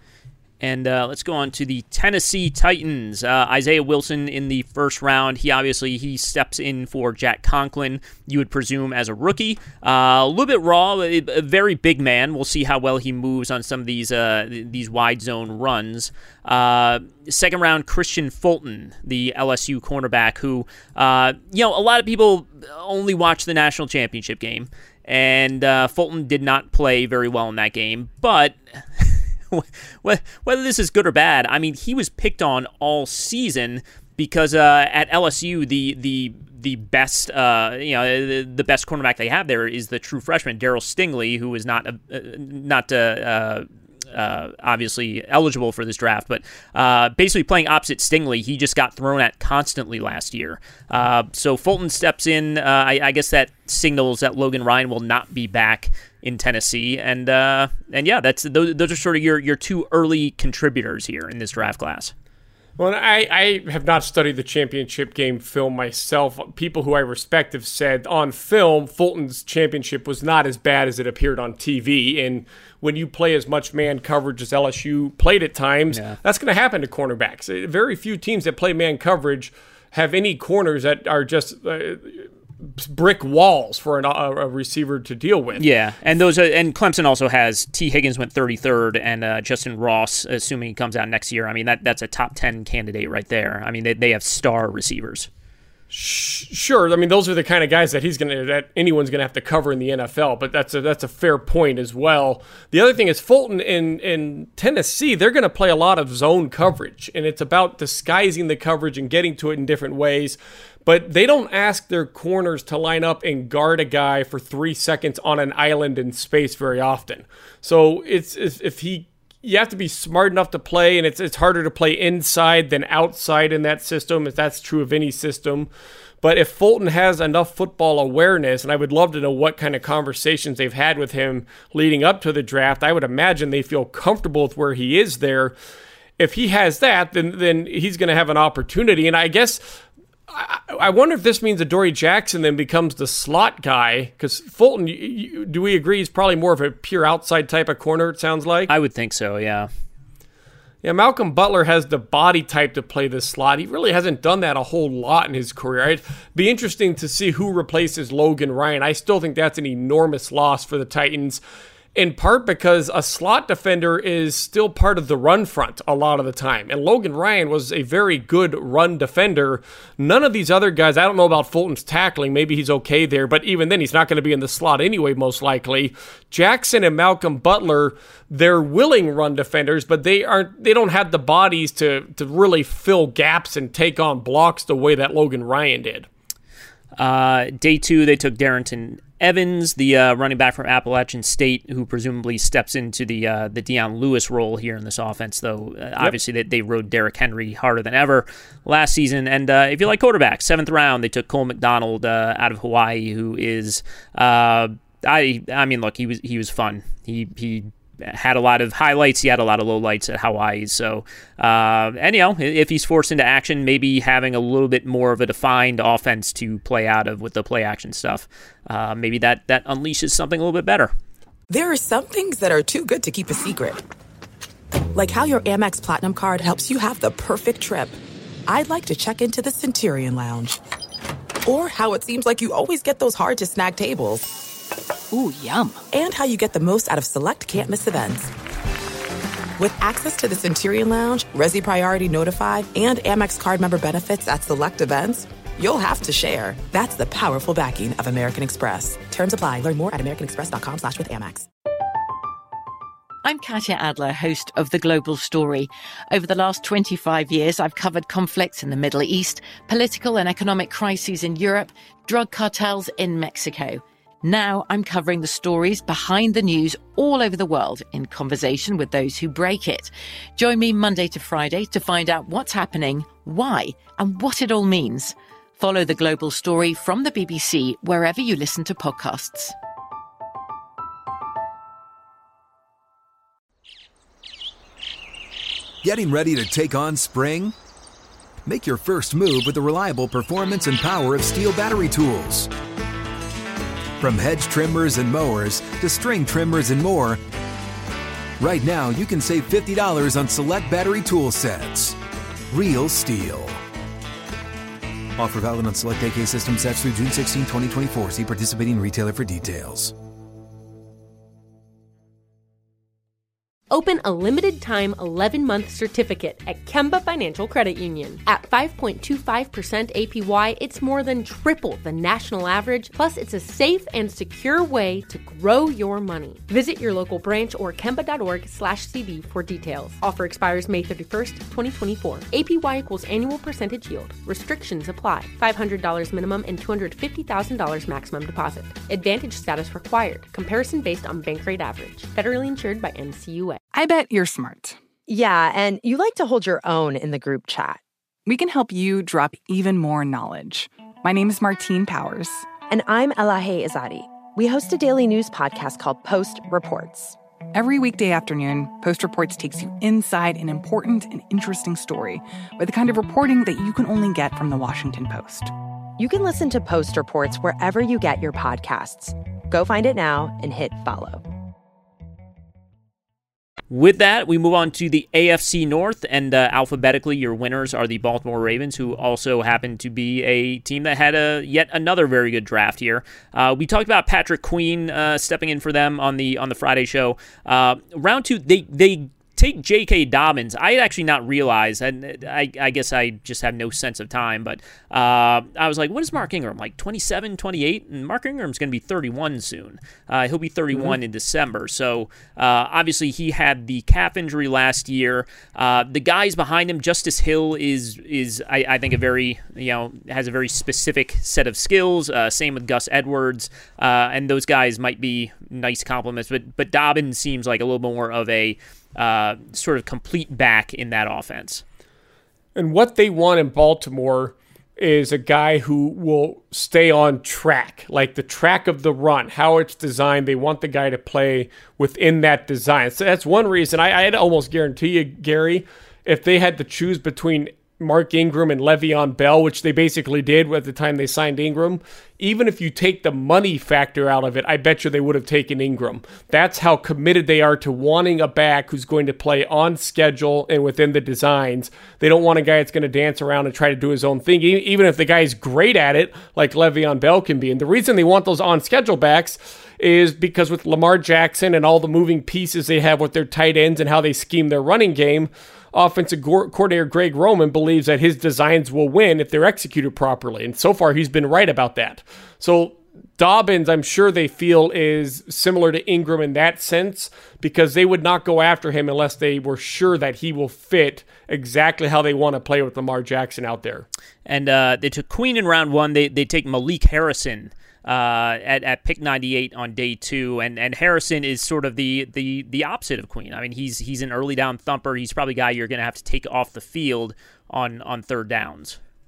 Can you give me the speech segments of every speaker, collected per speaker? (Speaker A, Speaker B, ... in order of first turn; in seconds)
Speaker A: 0.6-62.1, 75.9-76.2, 85.5-95.3, 148.7-149.7, 187.0-220.9, 373.7-421.6, 484.2-498.8
Speaker B: 62.8-85.6, 95.9-125.7, 126.2-135.5, 136.2-148.7, 150.8-161.4, 161.9-186.1, 422.5-483.9
Speaker C: 221.5-223.8, 224.9-227.9, 228.5-230.6, 231.4-234.3, 235.9-238.3, 239.6-251.5
Speaker D: 235.1-235.8, 343.7-344.8, 348.2-352.5, 357.5-365.5
Speaker E: 253.2-279.5
Speaker F: 285.8-287.6, 288.4-292.5, 294.0-297.2, 298.4-302.0, 302.5-303.6, 305.2-309.9
Speaker G: 313.7-343.6
Speaker H: 345.1-347.8, 352.7-357.2, 366.0-371.2